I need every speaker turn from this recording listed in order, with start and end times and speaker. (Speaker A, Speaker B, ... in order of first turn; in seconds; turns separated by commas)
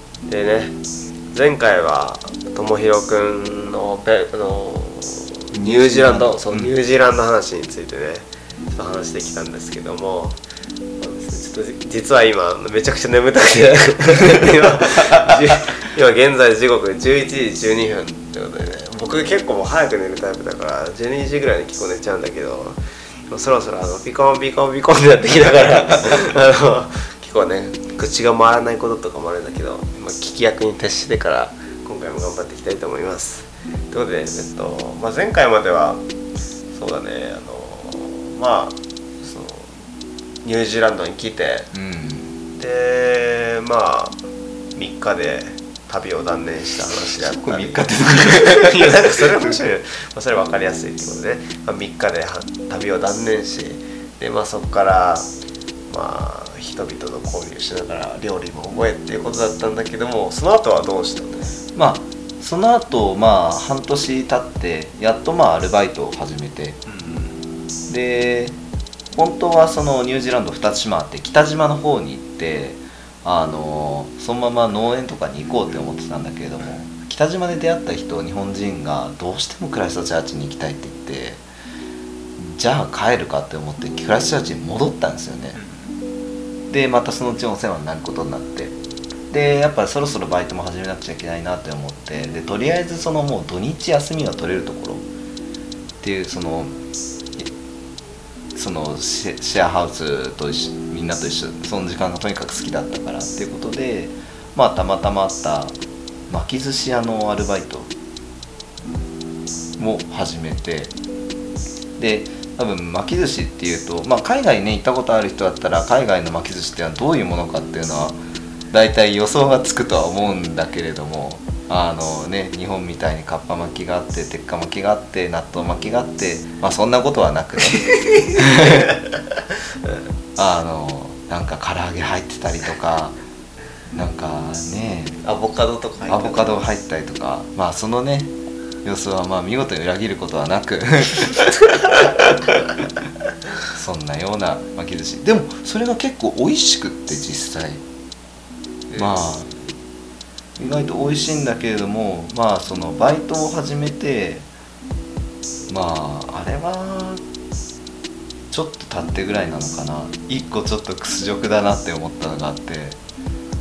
Speaker A: 0.3-0.7, Speaker A: 1.3-10.4, Speaker B: 5.5-6.7, Speaker A: 11.0-36.0, Speaker A: 36.7-39.8, Speaker A: 40.4-41.7, Speaker B: 41.7-42.4, Speaker A: 42.5-44.2, Speaker A: 44.8-55.3, Speaker B: 47.1-49.6, Speaker A: 55.9-61.6, Speaker B: 61.8-66.8, Speaker A: 66.9-67.4, Speaker B: 67.9-68.6, Speaker B: 69.1-81.4, Speaker B: 82.4-85.6, Speaker A: 85.5-85.9, Speaker B: 86.7-88.8, Speaker B: 89.3-95.0, Speaker B: 96.0-96.8, Speaker B: 98.5-105.8, Speaker B: 106.3-107.9, Speaker B: 109.8-110.9, Speaker B: 112.0-118.2, Speaker B: 118.7-127.8, Speaker A: 127.7-130.0, Speaker B: 128.4-128.9, Speaker B: 130.4-133.2, Speaker B: 133.9-135.2, Speaker A: 135.2-136.6, Speaker B: 136.1-141.8, Speaker B: 143.7-147.8, Speaker A: 148.9-149.7, Speaker B: 149.0-149.5, Speaker B: 150.6-154.5, Speaker B: 155.7-157.2, Speaker B: 158.5-163.0